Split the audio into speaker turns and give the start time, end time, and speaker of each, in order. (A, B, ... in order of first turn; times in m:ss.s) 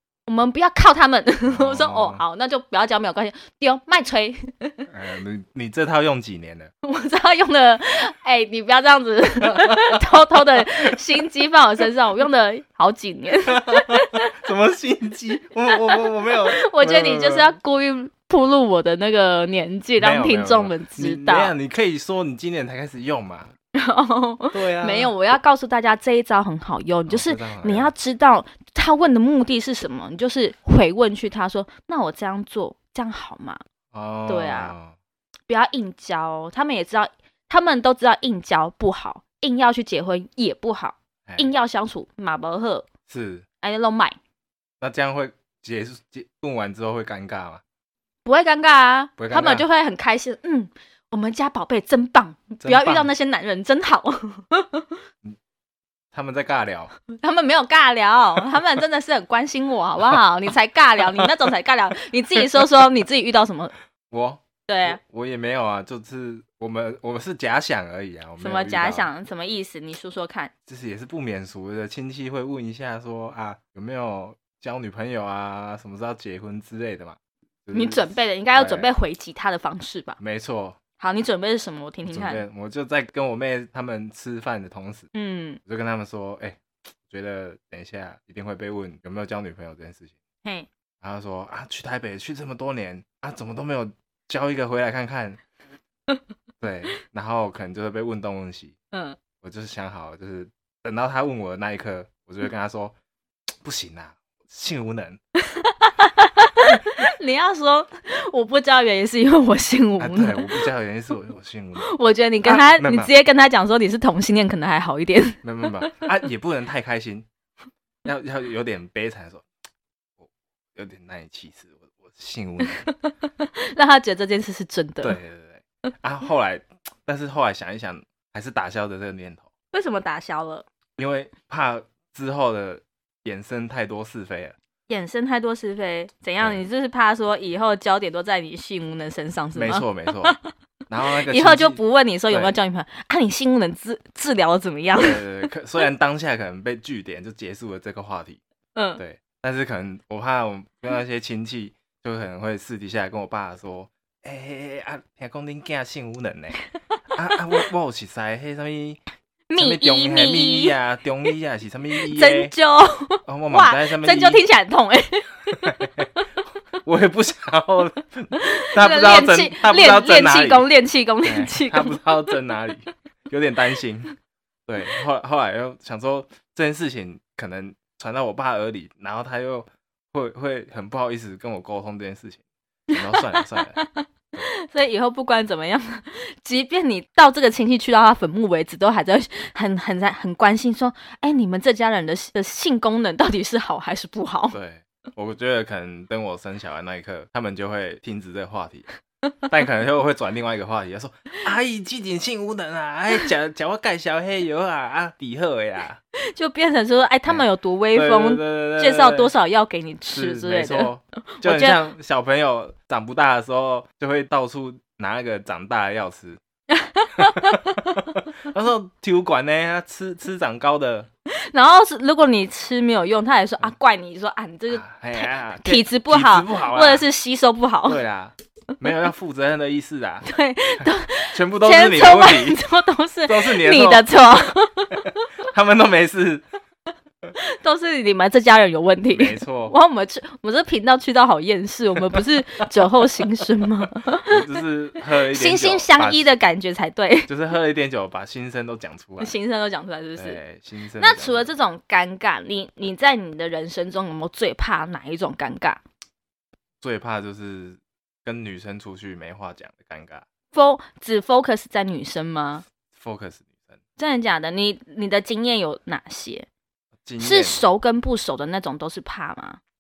0:00.2-0:04.8 A
0:01.5-0:02.2 B
0:04.9-0:06.7 B
0:06.8-0:14.3 A
0:09.5-0:10.0 B
0:13.5-0:17.5 B
0:16.0-0:21.5 A
0:20.0-0:23.5 B
0:23.7-0:33.6 A
0:24.5-0:25.1 B
0:27.1-0:27.9 B
0:33.9-0:34.9 B
0:34.3-0:34.7 A
0:35.5-0:42.9 A
0:43.1-0:43.4 B
0:43.6-0:44.2 A
0:44.8-0:47.6 B
0:48.2-0:55.0 A
0:49.2-0:49.6 B
0:52.6-0:53.1 B
0:56.1-0:56.9 B
0:57.2-1:03.7 A
1:04.1-1:09.1 B
1:04.7-1:05.0 A
1:08.4-1:10.5 A
1:10.7-1:18.9 B
1:17.7-1:20.2 A
1:20.2-1:20.8 B
1:21.0-1:22.4 A
1:22.1-1:25.1 B
1:25.1-1:25.6 A
1:25.6-1:30.1 B
1:31.0-1:35.4 B
1:36.6-1:38.7 B
1:38.9-1:39.2 A
1:39.4-1:42.9 B
1:43.6-1:45.2 B
1:45.4-1:50.6 A
1:50.0-1:51.9 B
1:51.8-1:56.0 A
1:52.4-1:53.1 B
1:55.4-1:57.2 B
1:58.0-1:59.4 B
2:00.2-2:02.8 B
2:02.6-2:05.2 A
2:05.0-2:09.5 B
2:09.7-2:10.6 A
2:11.0-2:14.6 B
2:14.9-2:20.4 A
2:19.5-2:20.4 B
2:20.9-2:21.8 B
2:21.2-2:25.2 A
2:25.0-2:28.4 B
2:28.7-2:29.0 A
2:29.0-2:36.6 B
2:37.1-2:39.0 B
2:39.5-2:40.8 A
2:39.6-2:42.5 B
2:42.0-2:45.9 A
2:43.2-2:44.4 B
2:45.6-2:46.1 B
2:46.8-2:50.7 B
2:48.3-2:52.1 A
2:51.2-2:54.1 B
2:54.7-3:02.4 B
3:02.9-3:03.8 B
3:02.9-3:14.6 A
3:14.5-3:18.9 B
3:19.5-3:26.0 B
3:26.2-3:31.8 A
3:27.3-3:29.3 B
3:30.1-3:36.4 B
3:36.7-3:38.0 A
3:37.2-3:41.1 B
3:41.4-3:48.0 A
3:44.7-3:47.0 B
3:47.9-3:50.2 B
3:50.2-3:55.1 A
3:50.8-3:52.6 B
3:53.3-3:54.1 B
3:55.5-3:56.4 B
3:57.4-4:04.4 A
3:59.1-3:59.7 B
4:04.3-4:06.3 B
4:05.2-4:07.3 A
4:07.3-4:09.3 B
4:09.2-4:10.4 A
4:10.2-4:11.4 B
4:11.0-4:15.8 A
4:16.8-4:20.2 B
4:20.5-4:22.6 A
4:22.9-4:23.8 B
4:24.0-4:26.4 A
4:27.0-4:27.6 B
4:27.2-4:29.6 A